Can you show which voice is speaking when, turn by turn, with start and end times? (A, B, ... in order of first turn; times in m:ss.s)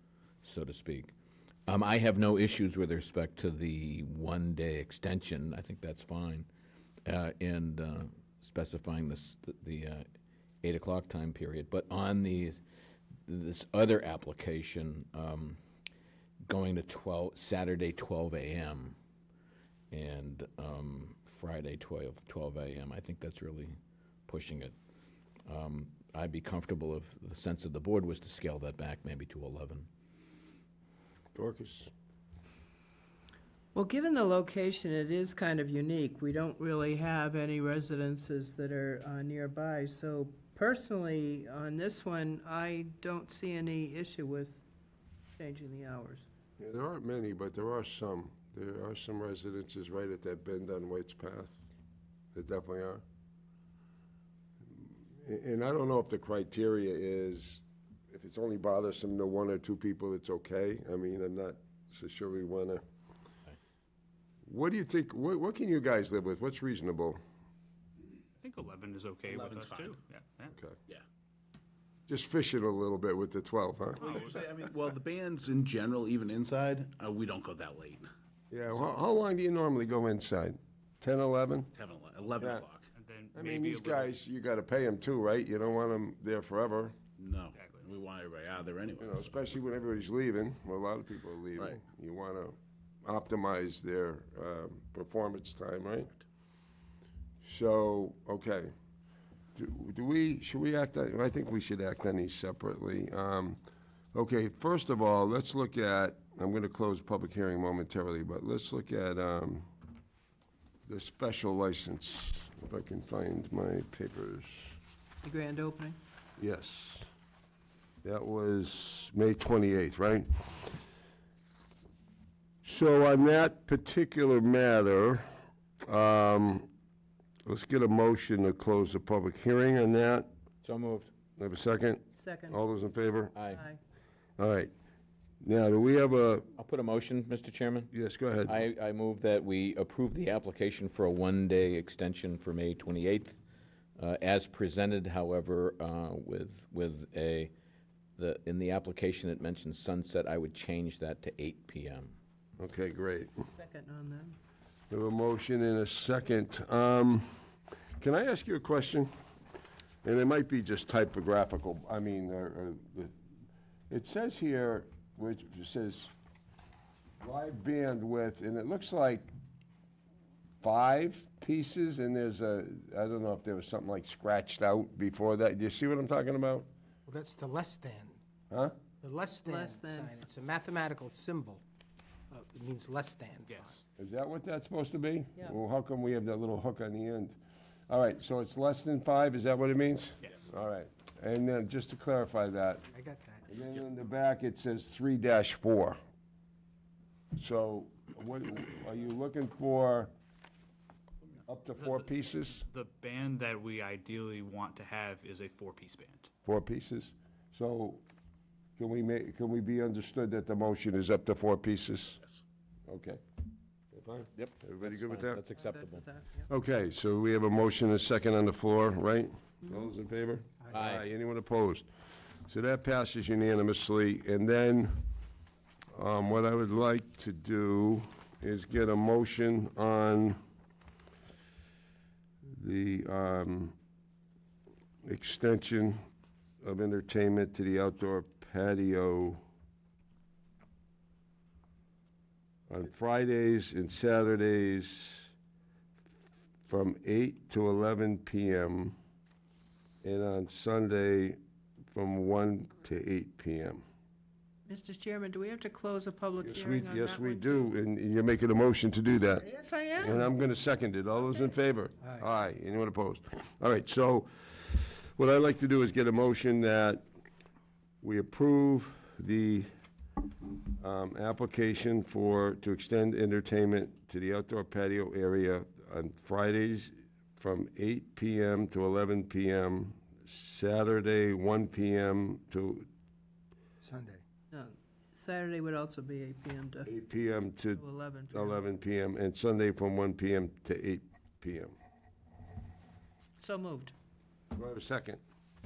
0:00.4-0:01.1 A
0:01.7-0:06.5 A
0:07.0-0:10.0 A
0:10.6-0:12.6 A
0:13.3-0:15.6 A
0:16.4-0:19.0 A
0:19.9-0:23.7 A
0:24.2-0:24.7 A
0:25.4-0:29.9 A
0:31.3-0:31.9 B
0:33.7-0:44.6 C
0:45.4-0:46.2 C
0:46.6-0:51.6 B
0:52.3-0:53.0 B
0:54.7-1:02.8 B
1:04.5-1:07.2 B
1:08.4-1:10.5 D
1:09.2-1:10.0 E
1:12.1-1:14.3 B
1:14.0-1:14.4 D
1:14.0-1:18.0 E
1:18.5-1:21.7 B
1:21.7-1:22.9 E
1:22.4-1:22.6 B
1:22.9-1:24.1 D
1:23.3-1:27.0 B
1:27.2-1:29.4 E
1:27.5-1:27.9 D
1:29.0-1:36.1 B
1:37.4-1:38.7 B
1:39.5-1:43.6 B
1:44.1-1:49.7 B
1:50.9-1:54.8 B
1:55.2-1:56.0 C
1:56.4-1:57.1 B
1:58.0-2:00.8 B
2:02.6-2:05.2 B
2:05.9-2:06.7 B
2:07.4-2:10.3 B
2:10.6-2:11.1 A
2:11.4-2:13.3 B
2:12.2-2:12.6 C
2:13.3-2:13.6 A
2:13.5-2:13.8 C
2:14.4-2:14.7 B
2:15.4-2:16.5 B
2:16.6-2:17.9 A
2:17.9-2:18.6 B
2:18.4-2:23.4 A
2:24.0-2:27.5 A
2:28.2-2:32.2 A
2:32.6-2:33.4 B
2:33.5-2:34.4 C
2:34.9-2:37.4 B
2:38.0-2:39.1 B
2:40.0-2:43.1 B
2:43.9-2:46.1 B
2:47.2-2:49.3 B
2:50.6-2:56.7 B
2:57.1-2:58.1 F
2:58.5-2:58.8 B
2:59.0-3:01.6 F
2:59.4-3:00.5 C
3:02.3-3:03.8 F
3:03.5-3:03.8 D
3:04.0-3:07.4 B
3:07.9-3:12.8 B
3:13.0-3:13.4 F
3:13.5-3:14.0 E
3:13.5-3:16.0 B
3:17.4-3:20.1 B
3:21.5-3:22.6 B
3:21.8-3:26.3 D
3:26.4-3:28.0 B
3:28.8-3:32.2 B
3:32.9-3:33.2 B
3:33.9-3:35.4 B
3:34.4-3:36.0 A
3:35.5-3:36.4 C
3:36.5-3:41.8 B
3:40.7-3:41.0 A
3:42.5-3:45.0 B
3:45.9-3:50.4 B
3:52.5-3:53.7 B
3:55.0-3:56.0 B
3:56.6-3:59.4 B
4:02.7-4:05.3 B
4:06.6-4:08.9 B
4:10.0-4:11.4 B
4:11.9-4:13.8 B
4:14.7-4:17.6 C
4:16.4-4:19.4 B
4:19.4-4:20.1 C
4:20.0-4:27.0 B
4:28.0-4:29.7 B
4:30.8-4:42.9 B
4:43.8-4:44.2 F
4:44.5-4:46.9 C
4:46.8-4:51.7 B
4:47.8-4:48.6 C
4:53.4-4:53.9 C
4:54.5-4:55.2 B